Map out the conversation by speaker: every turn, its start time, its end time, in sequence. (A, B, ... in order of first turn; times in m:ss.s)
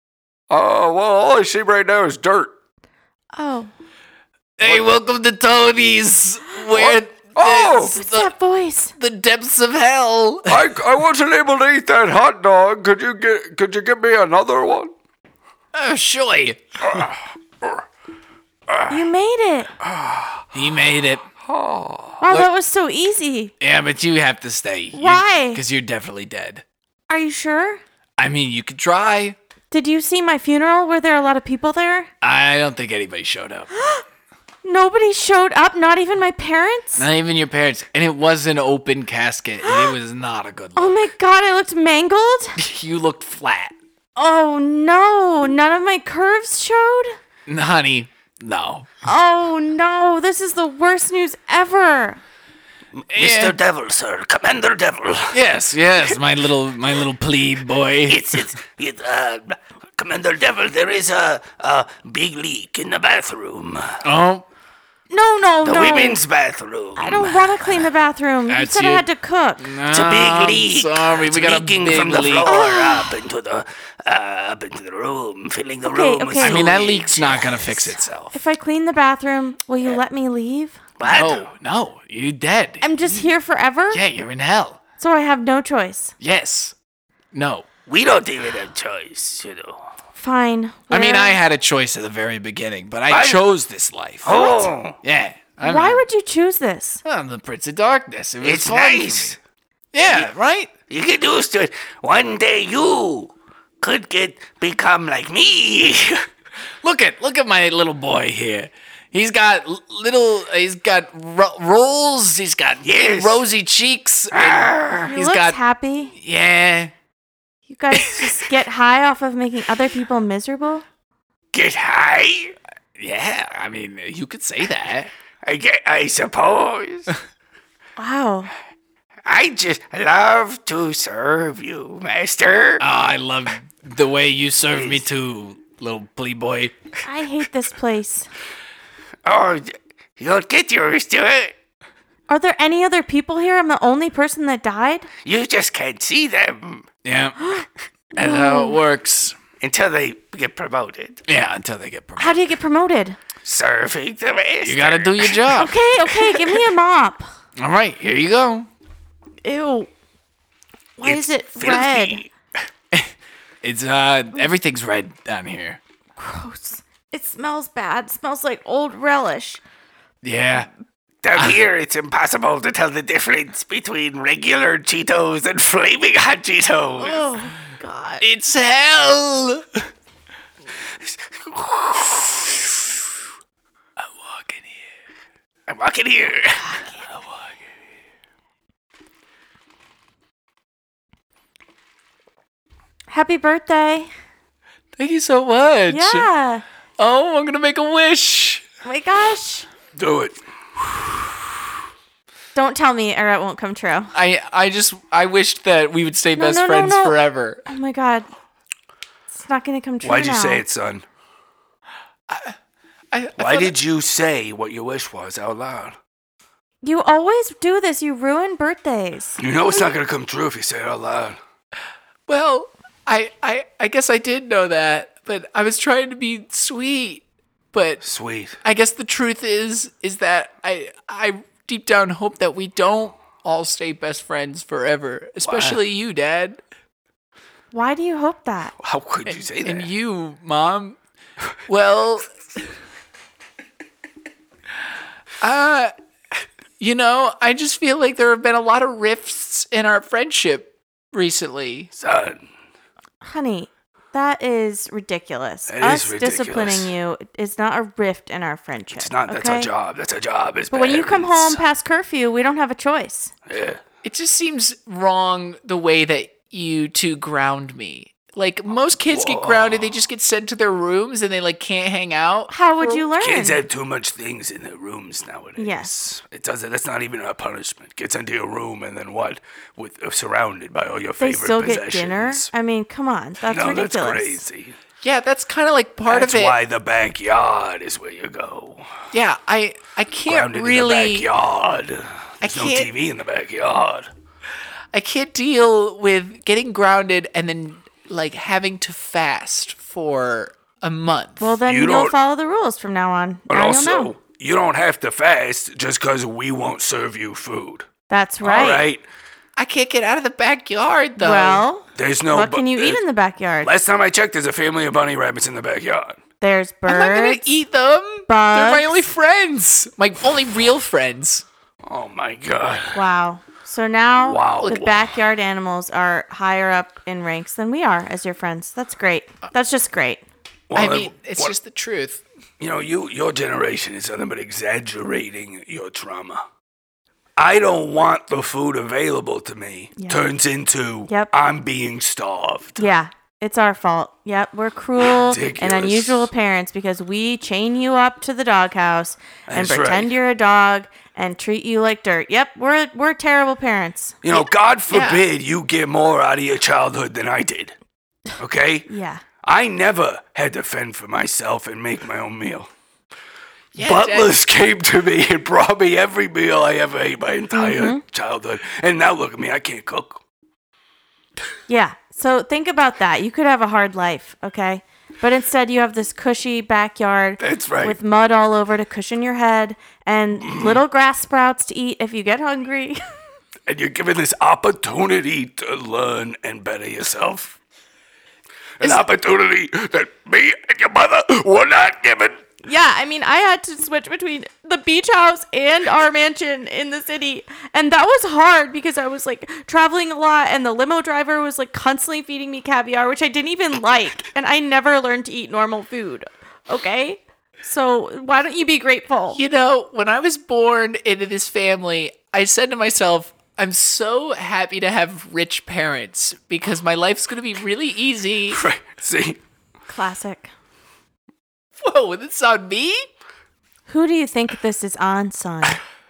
0:00.5-0:02.5 A
0:03.3-0:03.7 B
0:04.6-0:08.3 C
0:04.6-0:04.9 A
0:06.7-0:08.0 A
0:07.9-0:08.9 B
0:09.0-0:10.7 C
0:10.5-0:14.9 A
0:15.7-0:16.6 C
0:16.9-0:17.8 A
0:18.9-0:19.7 B
0:19.8-0:20.4 A
0:20.5-0:21.2 C
0:21.4-0:22.3 A
0:22.2-0:23.5 B
0:23.6-0:26.6 C
0:24.9-0:25.6 B
0:27.1-0:27.8 B
0:28.2-0:29.4 C
0:29.7-0:32.1 B
0:32.2-0:33.7 C
0:33.7-0:34.0 B
0:34.6-0:37.0 B
0:37.0-0:41.0 C
0:39.6-0:39.9 B
0:40.8-0:42.6 B
0:42.6-0:43.7 C
0:44.2-0:47.2 B
0:47.5-0:48.9 C
0:49.0-0:52.2 B
0:53.0-0:55.4 D
0:53.1-0:53.6 C
0:55.3-0:58.4 C
0:58.1-1:04.0 D
1:04.0-1:04.4 C
1:05.1-1:06.2 B
1:05.6-1:07.4 D
1:07.0-1:09.7 B
1:08.5-1:09.1 C
1:09.6-1:12.6 C
1:09.9-1:17.9 D
1:12.4-1:13.2 B
1:15.9-1:16.8 B
1:16.4-1:18.4 C
1:18.3-1:20.8 B
1:21.0-1:21.5 D
1:21.0-1:23.3 C
1:22.8-1:24.0 B
1:23.9-1:24.8 C
1:25.0-1:26.1 B
1:26.2-1:26.7 C
1:27.3-1:27.6 C
1:27.9-1:29.8 D
1:30.1-1:31.4 B
1:30.9-1:36.0 C
1:33.1-1:33.4 D
1:34.2-1:35.0 D
1:35.6-1:37.0 B
1:37.0-1:39.4 C
1:38.4-1:39.4 D
1:39.9-1:40.7 C
1:40.0-1:40.3 D
1:40.9-1:46.2 D
1:46.8-1:55.6 C
1:52.8-1:53.4 D
1:54.3-1:55.1 D
1:55.1-1:56.1 B
1:56.1-1:56.9 C
1:57.7-2:00.8 B
2:01.5-2:02.5 D
2:03.0-2:05.1 C
2:05.4-2:07.1 D
2:08.0-2:08.5 B
2:09.2-2:12.8 D
2:12.8-2:16.7 C
2:14.7-2:15.0 D
2:17.0-2:18.3 B
2:19.2-2:21.5 D
2:22.3-2:25.1 B
2:25.2-2:26.8 D
2:27.0-2:27.4 C
2:27.4-2:27.6 B
2:28.2-2:29.4 C
2:28.2-2:28.8 B
2:29.6-2:31.2 D
2:31.3-2:32.4 C
2:32.2-2:33.2 B
2:33.4-2:35.6 D
2:34.6-2:35.8 C
2:35.5-2:37.3 B
2:37.6-2:38.7 C
2:39.4-2:39.9 B
2:41.0-2:42.2 B
2:41.0-2:42.3 D
2:43.6-2:45.8 C
2:46.2-2:49.6 B
2:50.2-2:50.7 C
2:51.2-2:57.2 D
2:57.0-2:58.2 B
2:58.2-2:59.8 C
3:01.0-3:02.4 D
3:04.0-3:04.9 C
3:05.7-3:06.8 D
3:13.1-3:14.1 B
3:15.0-3:16.3 C
3:15.9-3:16.6 B
3:17.0-3:18.6 C
3:18.8-3:19.7 B
3:19.9-3:20.4 D
3:22.5-3:24.1 B
3:24.1-3:27.6 C
3:26.4-3:28.3 B
3:29.3-3:30.6 B
3:30.0-3:31.0 D
3:32.3-3:32.5 C
3:33.1-3:33.7 C
3:33.4-3:36.0 D
3:36.8-3:39.8 B
3:39.4-3:41.4 D
3:42.3-3:48.0 C
3:48.0-3:48.6 D
3:48.6-3:56.6 C
3:55.4-3:55.8 D
3:57.7-3:58.7 B
3:58.8-3:59.9 D
3:59.3-4:01.0 C
4:01.7-4:02.3 C
4:05.4-4:05.9 C
4:06.8-4:11.9 C
4:11.9-4:12.4 D
4:13.2-4:19.7 B
4:15.7-4:16.9 D
4:19.0-4:21.6 D
4:20.7-4:23.3 B
4:23.5-4:23.8 D
4:24.0-4:33.0 C
4:29.1-4:29.8 D
4:32.5-4:33.6 B
4:33.2-4:42.5 D
4:35.6-4:35.9 B
4:41.2-4:44.4 B
4:43.4-4:44.8 D
4:45.0-4:46.6 C
4:46.1-4:48.9 D
4:49.1-4:51.3 C
4:50.2-4:54.1 D
4:52.4-4:52.9 C
4:54.9-5:01.6 C
5:01.4-5:04.1 B
5:01.6-5:02.1 D
5:03.5-5:07.9 D
5:08.1-5:08.9 B
5:08.4-5:09.0 D
5:09.6-5:11.6 C
5:11.2-5:13.7 B
5:11.9-5:13.0 D
5:13.6-5:16.2 D
5:16.4-5:17.5 B
5:16.8-5:21.4 C
5:18.3-5:19.1 B
5:21.8-5:23.0 D
5:22.9-5:30.2 B
5:24.2-5:25.1 D
5:30.7-5:31.5 D
5:30.7-5:32.2 C
5:32.6-5:36.4 D
5:37.4-5:42.8 D
5:40.0-5:40.2 B
5:42.8-5:54.4 B
5:45.0-5:46.3 D
5:49.5-5:50.1 D
5:54.2-5:57.8 D
5:54.9-5:55.2 C
5:58.4-5:58.9 D
5:58.9-5:59.2 B
5:59.4-6:02.7 D
6:03.7-6:04.3 C
6:03.8-6:10.2 D
6:07.5-6:08.0 B
6:11.7-6:23.0 B
6:17.4-6:18.0 D
6:20.4-6:20.8 D
6:23.6-6:27.6 D
6:28.8-6:32.4 D
6:32.6-6:49.4 B
6:49.3-6:58.6 C
6:58.5-6:59.4 D
6:59.9-7:00.5 B
7:01.8-7:03.1 C
7:03.9-7:05.8 B